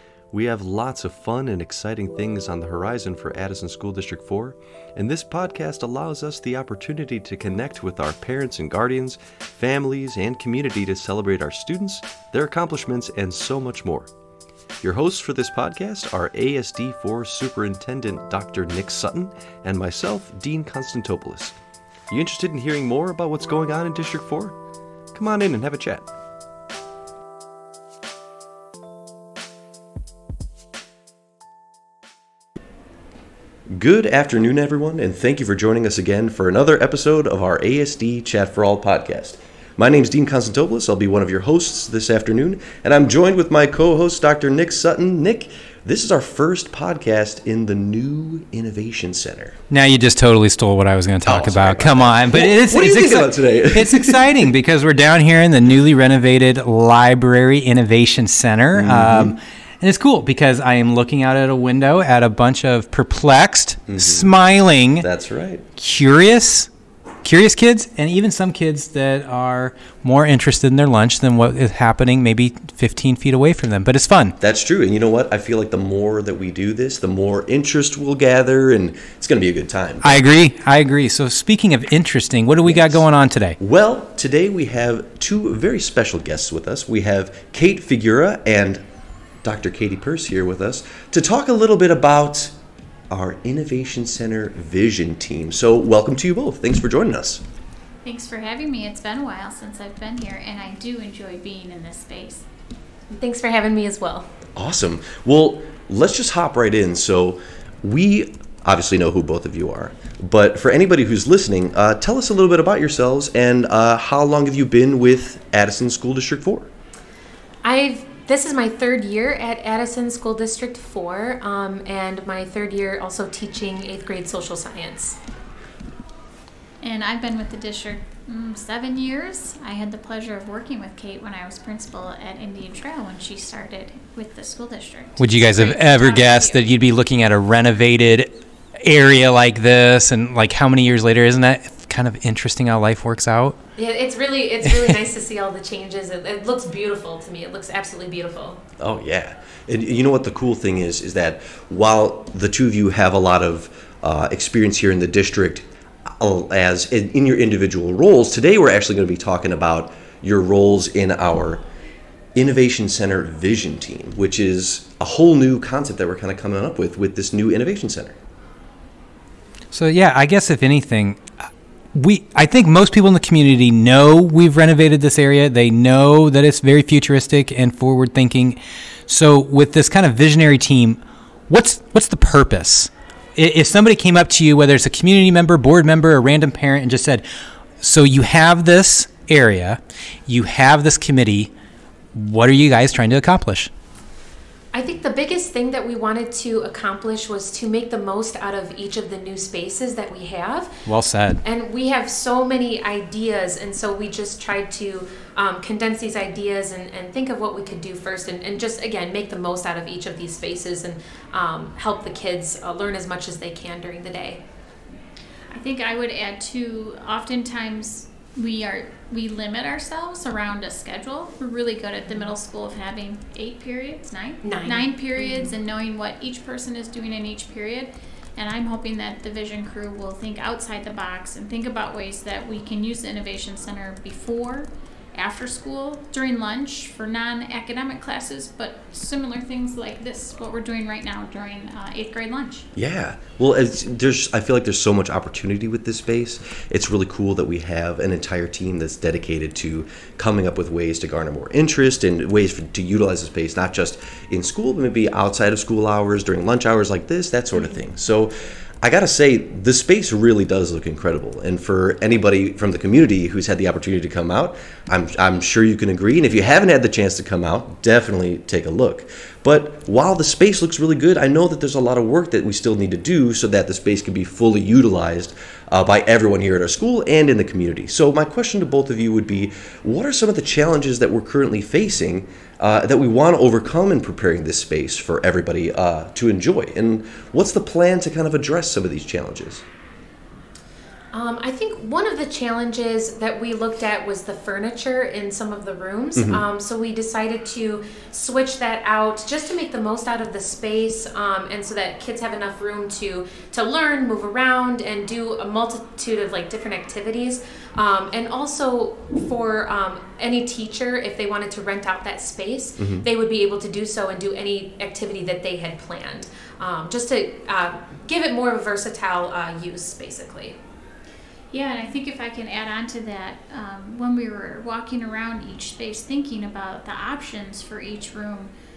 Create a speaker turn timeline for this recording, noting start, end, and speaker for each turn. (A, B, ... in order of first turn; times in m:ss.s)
0:00.3-0:14.1 A
0:14.8-0:21.5 A
0:22.1-0:24.6 A
0:25.1-0:26.0 A
0:33.7-0:49.5 A
0:49.7-1:05.1 B
0:51.2-0:54.5 A
0:58.7-0:59.4 A
1:03.9-1:04.3 A
1:05.0-1:05.6 A
1:05.8-1:06.7 B
1:07.2-1:14.4 B
1:14.4-1:20.2 A
1:20.0-1:23.6 B
1:22.6-1:23.0 A
1:23.6-1:28.8 A
1:29.4-1:32.5 A
1:33.1-1:37.4 A
1:38.0-1:42.4 C
1:43.1-1:44.3 D
1:44.6-1:56.7 A
1:57.6-2:05.2 D
2:06.8-2:16.6 C
2:15.2-2:23.6 B
2:23.8-2:28.6 D
2:28.8-2:35.6 A
2:36.2-2:41.6 A
2:42.4-2:48.2 A
2:49.7-2:51.2 B
2:51.9-3:07.2 B
3:07.8-3:11.5 B
3:12.1-3:13.7 B
3:14.7-3:20.8 D
3:20.8-3:21.4 B
3:21.4-3:34.4 D
3:35.5-4:02.7 C
3:44.4-3:45.5 D
4:02.7-4:18.3 A
4:17.5-4:17.8 D
4:18.8-4:49.6 A
4:51.1-5:20.6 D
4:56.2-4:56.4 A
5:12.8-5:13.0 A
5:21.5-5:28.5 C